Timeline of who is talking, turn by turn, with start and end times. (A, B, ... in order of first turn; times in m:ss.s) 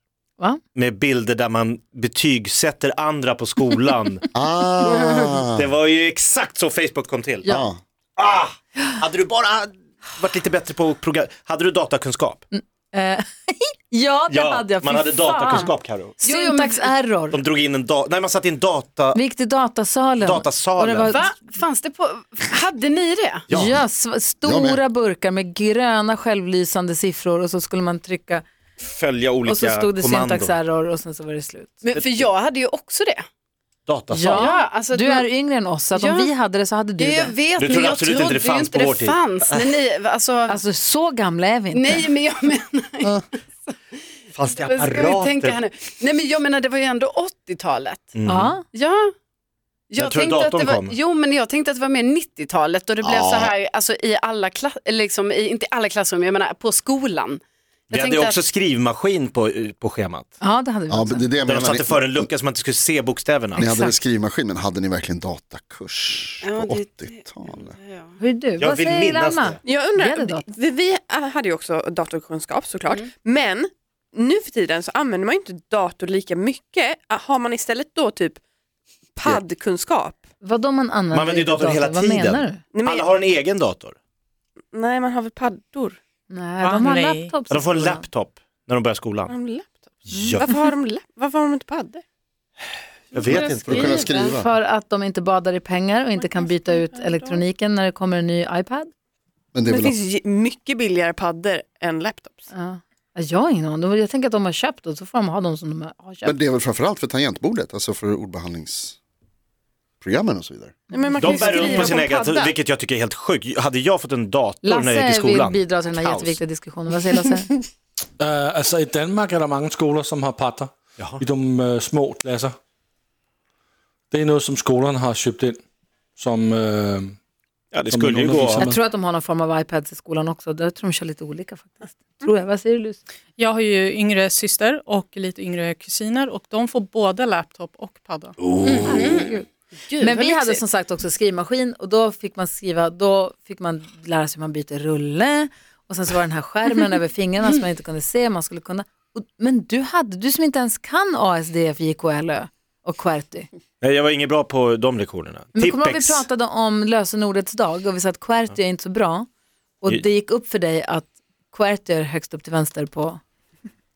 0:00.7-0:04.3 A
0:04.3-0:05.7 B
0:05.6-0:07.5 A
0:07.5-0:07.8 B
0:08.2-0:12.4 A
0:12.5-0:17.4 C
0:14.3-0:16.2 A
0:16.2-0:16.9 D
0:17.3-0:19.2 A
0:19.1-0:21.4 C
0:20.2-0:21.2 A
0:21.0-0:23.5 D
0:23.5-0:23.8 A
0:23.5-0:28.4 C
0:24.4-0:24.8 B
0:28.8-0:30.6 A
0:29.5-0:31.9 C
0:31.8-0:33.2 D
0:32.0-0:32.2 A
0:33.9-0:34.5 A
0:34.1-0:37.4 C
0:34.3-0:35.3 D
0:35.9-0:36.3 D
0:37.0-0:40.6 D
0:37.6-0:39.8 A
0:40.5-0:42.0 C
0:41.7-0:43.3 D
0:44.4-0:45.6 A
0:44.5-0:48.1 D
0:48.2-0:48.6 A
0:48.3-0:48.6 C
0:48.7-0:49.1 D
0:49.9-0:58.4 D
0:50.0-0:51.0 A
0:53.0-0:53.5 B
0:57.9-1:00.4 A
1:00.4-1:01.3 C
1:00.9-1:02.3 B
1:01.5-1:03.7 A
1:03.6-1:04.0 C
1:03.6-1:07.8 B
1:06.4-1:08.2 D
1:08.2-1:10.5 C
1:08.6-1:09.6 A
1:09.7-1:18.4 E
1:19.2-1:20.2 E
1:20.4-1:22.6 C
1:21.1-1:24.0 A
1:22.7-1:23.1 E
1:24.7-1:26.0 E
1:26.3-1:28.0 C
1:26.6-1:27.3 F
1:27.5-1:29.4 A
1:29.3-1:32.0 E
1:30.0-1:30.7 A
1:33.1-1:34.1 A
1:33.2-1:34.4 D
1:33.4-1:34.5 B
1:34.3-1:38.9 C
1:36.2-1:37.4 E
1:39.5-1:40.0 B
1:39.7-1:42.5 E
1:42.5-1:46.4 C
1:46.2-1:49.0 B
1:50.0-1:50.8 B
1:50.9-1:52.6 E
1:51.1-1:56.3 A
1:54.6-1:57.6 C
1:58.2-2:02.6 G
2:01.0-2:01.2 A
2:04.1-2:05.6 G
2:06.2-2:07.2 G
2:07.7-2:08.7 A
2:07.9-2:08.8 G
2:08.6-2:13.0 C
2:13.4-2:18.4 F
2:18.6-2:19.3 D
2:18.8-2:19.5 C
2:19.9-2:20.6 D
2:20.0-2:33.5 C
2:33.8-2:36.2 A
2:35.6-2:39.3 C
2:39.8-2:43.2 C